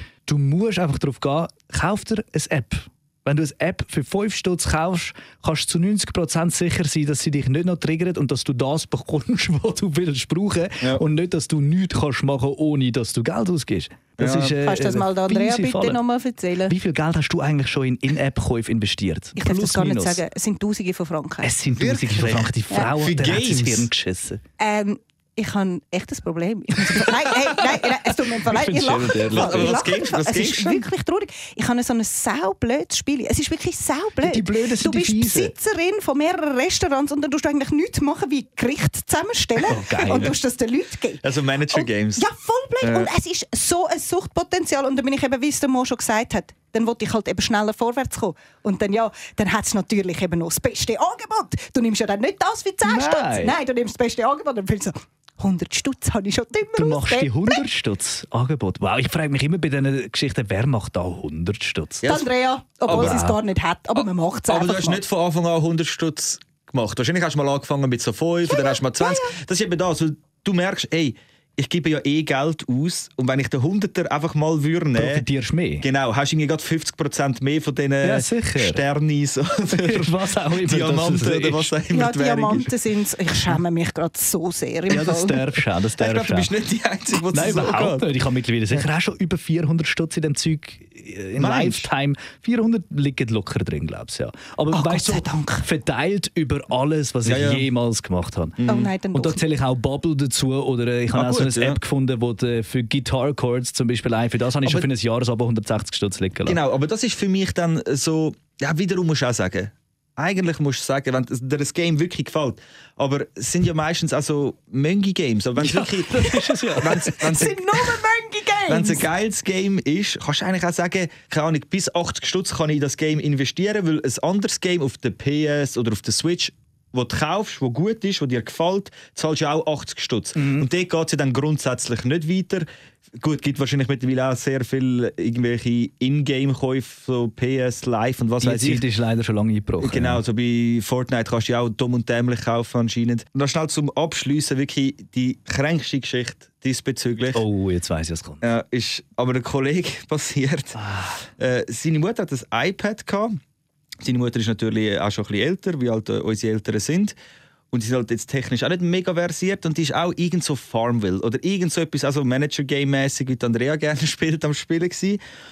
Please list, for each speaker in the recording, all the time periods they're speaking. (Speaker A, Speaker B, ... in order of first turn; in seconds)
Speaker A: 0.3-16.0, 16.7-20.2, 21.4-24.4, 28.4-29.8, 34.2-35.5, 39.7-40.4, 52.9-53.6, 56.8-62.1, 62.9-63.4, 75.0-75.9, 78.0-78.8, 79.7-81.7, 84.9-86.5, 87.3-106.6, 115.6-117.2, 130.4-130.7, 138.4-140.2, 147.3-148.4, 150.8-151.2
Speaker B: 14.2-14.6, 21.7-23.9, 29.3-30.9, 41.2-42.2, 42.8-43.1, 62.9-63.2, 64.5-75.3, 75.8-82.7, 86.0-88.1, 91.4-91.9, 97.2-97.7, 98.6-98.9, 101.1-101.8, 104.6-104.9, 106.5-117.9, 118.7-132.7, 133.2-138.8, 139.8-147.4, 148.4-150.8, 151.4-153.3, 154.0-157.2, 157.7-165.2
Speaker C: 14.6-16.7, 19.4-21.6, 24.6-57.6, 62.0-65.0, 68.5-69.3, 81.9-85.6, 94.7-95.7, 98.7-99.4, 117.2-119.1